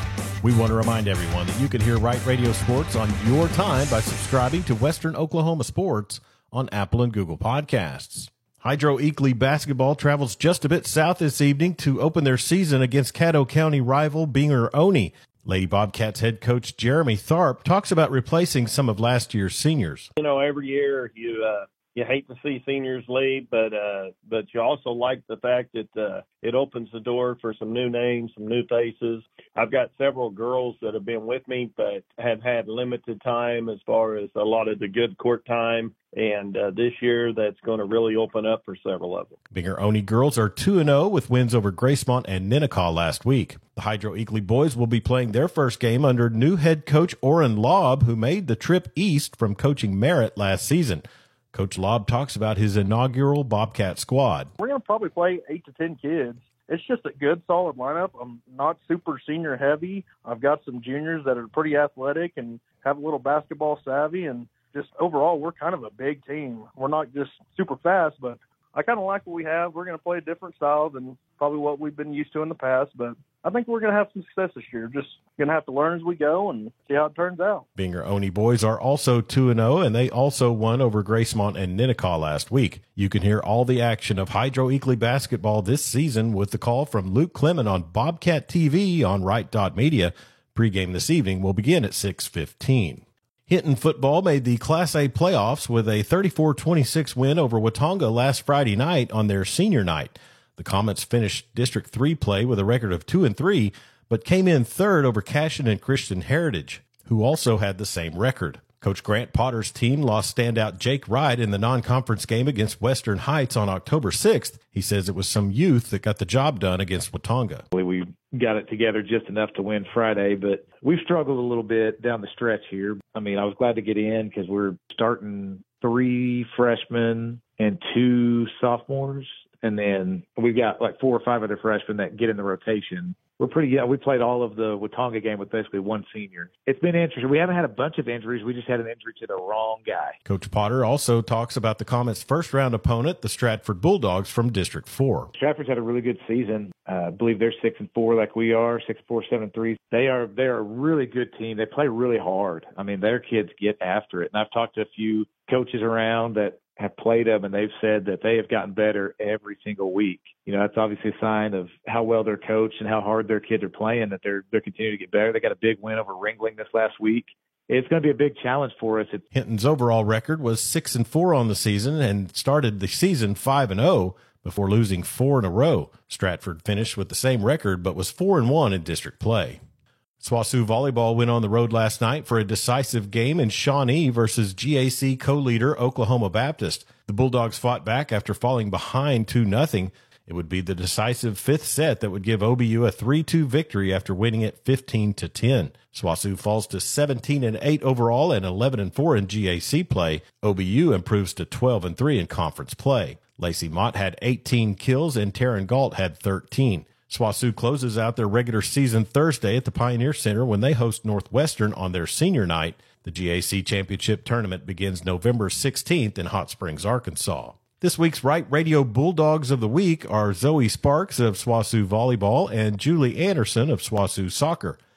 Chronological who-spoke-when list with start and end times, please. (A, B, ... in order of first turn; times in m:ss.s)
0:00.4-0:20.1 A
0:20.2-0:39.3 B
0:39.5-0:54.5 A
0:54.6-1:17.6 C
1:17.8-1:57.6 A
1:57.7-2:20.2 D
2:20.2-2:25.3 A
2:25.3-2:49.2 D
2:49.3-2:59.6 A
3:00.2-3:44.8 A